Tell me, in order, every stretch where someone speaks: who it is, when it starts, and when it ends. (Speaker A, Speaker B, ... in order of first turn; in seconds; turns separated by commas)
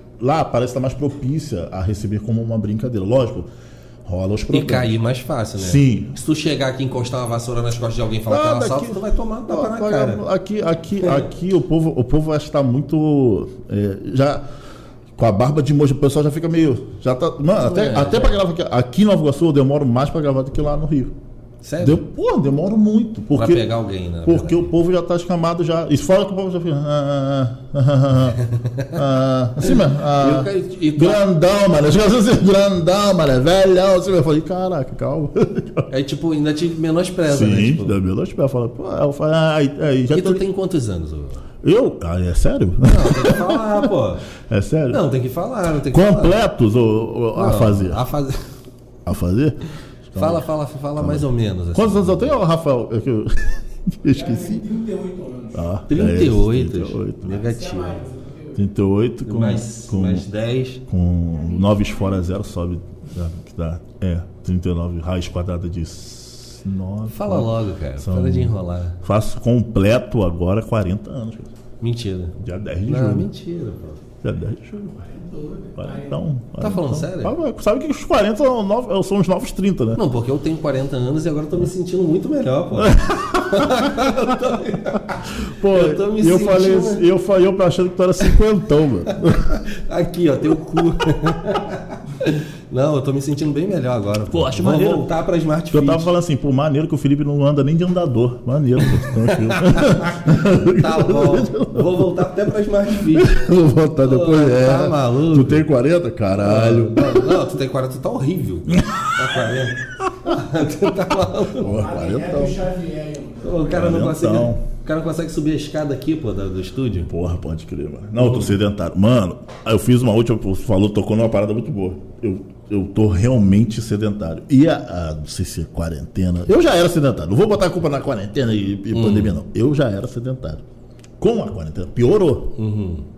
Speaker A: 0.2-3.5, Speaker A: 4.0-4.9, Speaker B: 4.5-10.2, Speaker A: 5.6-6.1, Speaker A: 8.3-14.5, Speaker A: 15.2-21.1, Speaker B: 17.6-18.4, Speaker B: 21.6-22.0, Speaker A: 21.8-23.7, Speaker B: 23.3-24.7, Speaker A: 24.2-35.9, Speaker B: 28.5-28.9, Speaker B: 29.6-31.2, Speaker B: 35.9-38.0, Speaker A: 37.3-40.4, Speaker B: 40.1-41.5, Speaker A: 41.6-43.9, Speaker B: 42.9-44.2, Speaker A: 44.5-45.0, Speaker B: 44.9-46.4, Speaker A: 45.9-48.0, Speaker B: 47.4-48.5, Speaker A: 49.1-50.5, Speaker B: 50.1-52.4, Speaker A: 51.0-54.7, Speaker C: 54.1-55.6, Speaker A: 55.5-57.4, Speaker B: 55.9-58.0, Speaker C: 57.3-58.6, Speaker A: 58.5-60.3, Speaker B: 59.3-60.8, Speaker A: 60.9-71.5, Speaker B: 67.1-69.0, Speaker B: 71.8-74.0, Speaker A: 72.4-73.3, Speaker A: 74.2-75.1, Speaker C: 75.2-76.1, Speaker A: 75.7-80.0, Speaker B: 76.6-77.4, Speaker B: 80.0-87.1, Speaker A: 82.8-84.6, Speaker A: 85.2-89.6, Speaker B: 89.1-96.1, Speaker A: 94.3-95.1, Speaker A: 95.7-102.3, Speaker B: 98.9-103.5, Speaker A: 103.1-107.4, Speaker B: 104.0-105.7, Speaker B: 106.4-111.8, Speaker A: 108.7-109.4, Speaker A: 110.0-110.4, Speaker A: 111.5-112.6, Speaker C: 111.7-113.6, Speaker B: 113.4-117.1, Speaker A: 113.7-114.6, Speaker A: 117.1-130.6, Speaker B: 118.2-118.6, Speaker B: 128.9-129.4, Speaker A: 131.2-132.6, Speaker B: 132.6-133.1